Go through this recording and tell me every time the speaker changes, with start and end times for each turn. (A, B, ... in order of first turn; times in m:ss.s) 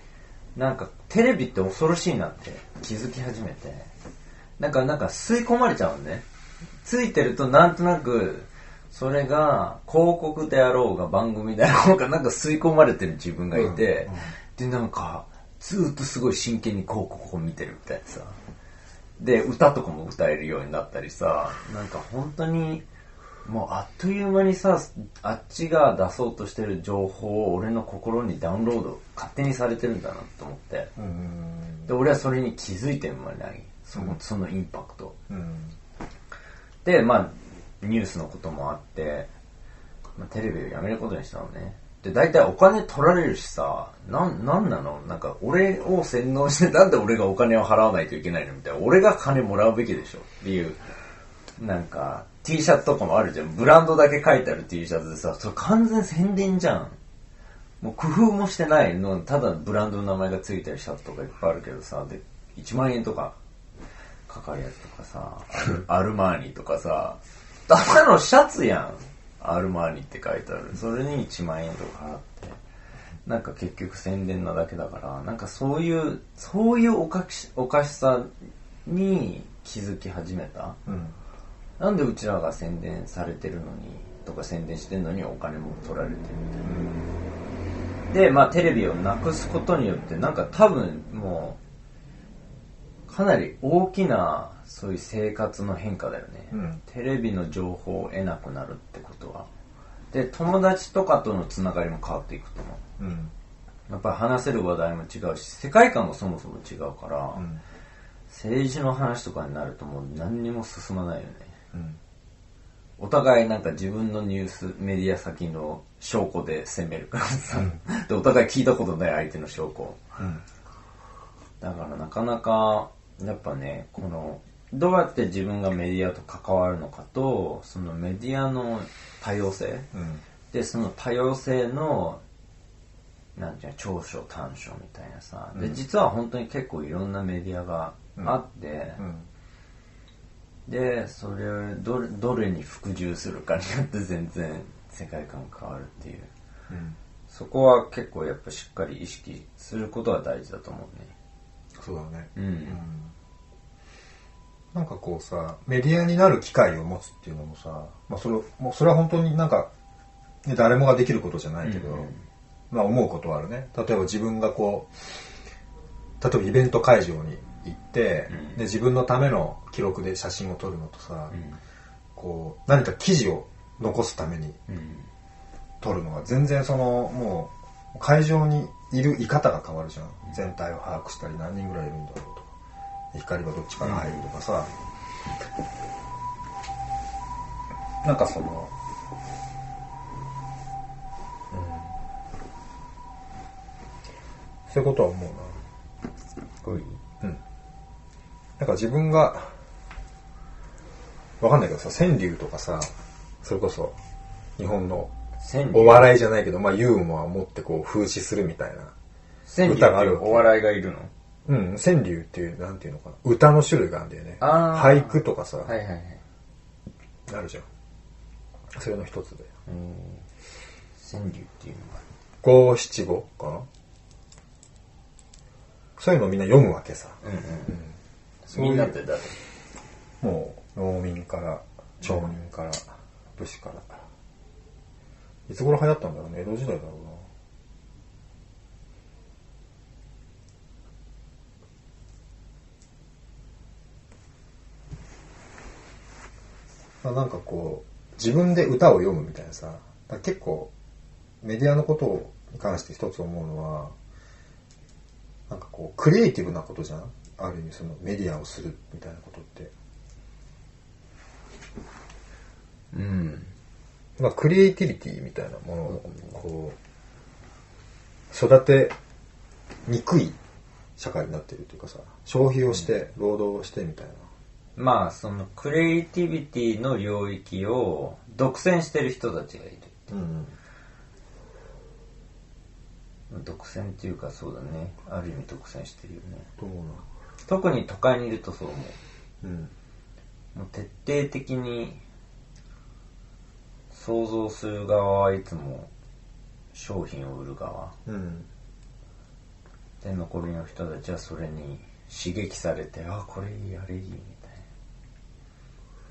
0:00.5-0:03.9 A
0:04.6-0:06.2 A
0:06.8-0:18.4 A
0:13.5-0:14.3 B
0:19.2-0:22.8 A
0:23.4-0:30.9 A
0:31.0-0:31.9 B
0:31.9-0:35.2 A
0:35.3-0:35.8 B
0:36.8-0:39.3 A
0:40.2-0:50.8 A
0:51.6-0:57.0 A
0:57.8-1:03.4 A
1:04.3-1:12.6 A
1:13.2-1:18.3 A
1:18.8-1:20.8 A
1:20.9-1:21.2 B
1:21.8-1:26.7 A
1:26.6-1:27.2 B
1:28.1-1:31.6 A
1:33.1-1:39.5 A
1:36.5-1:36.8 B
1:40.1-1:42.8 A
1:43.0-1:43.3 B
1:43.9-1:47.4 A
1:47.3-1:47.6 B
1:48.3-1:51.5 A
1:51.7-1:52.0 B
1:53.0-2:00.0 A
2:00.2-2:00.4 B
2:01.6-2:09.9 A
2:09.9-2:10.2 B
2:10.5-2:12.2 A
2:13.4-2:19.0 A
2:19.0-2:19.2 B
2:20.7-2:26.3 A
2:26.7-2:27.0 B
2:27.3-2:31.1 A
2:31.8-2:33.1 B
2:32.3-2:32.8 A
2:34.7-2:39.7 B
2:40.4-2:42.1 B
2:41.6-2:42.2 A
2:42.7-2:45.1 B
2:46.2-2:51.3 B
2:48.3-2:48.6 A
2:51.3-2:51.6 A
2:52.2-2:54.6 B
2:54.7-2:55.1 A
2:55.8-3:02.5 B
3:03.1-3:04.7 B
3:03.8-3:04.2 A
3:08.0-3:08.7 B
3:11.5-3:12.0 B
3:14.7-3:15.6 B
3:16.6-3:17.0 A
3:18.6-3:19.6 B
3:21.4-3:24.0 B
3:24.6-3:25.1 B
3:25.4-3:26.1 A
3:25.7-3:28.9 B
3:29.5-3:31.1 A
3:29.6-3:30.5 B
3:31.4-3:35.7 B
3:34.4-3:36.2 A
3:37.3-3:37.6 B
3:38.7-3:39.5 B
3:39.7-3:40.2 A
3:41.0-3:42.0 A
3:42.4-3:43.7 B
3:46.0-3:47.9 B
3:47.2-3:47.8 A
3:48.4-3:49.4 A
3:48.5-3:49.0 B
3:50.2-3:54.0 B
3:55.5-3:57.3 B
4:07.0-4:10.7 B
4:11.4-4:13.9 B
4:15.5-4:19.7 B
4:22.9-4:23.5 A
4:24.2-4:26.8 B
4:28.3-4:28.9 B
4:29.8-4:30.4 B
4:31.0-4:34.2 B
4:34.8-4:40.1 A
4:40.1-4:40.5 B
4:43.3-4:46.5 A
4:46.6-4:47.0 B
4:47.4-4:49.0 A
4:49.4-4:49.7 B
4:50.5-4:52.0 A
4:53.9-4:55.9 A
4:56.7-4:58.0 A
4:58.0-4:58.5 B
5:00.0-5:04.6 A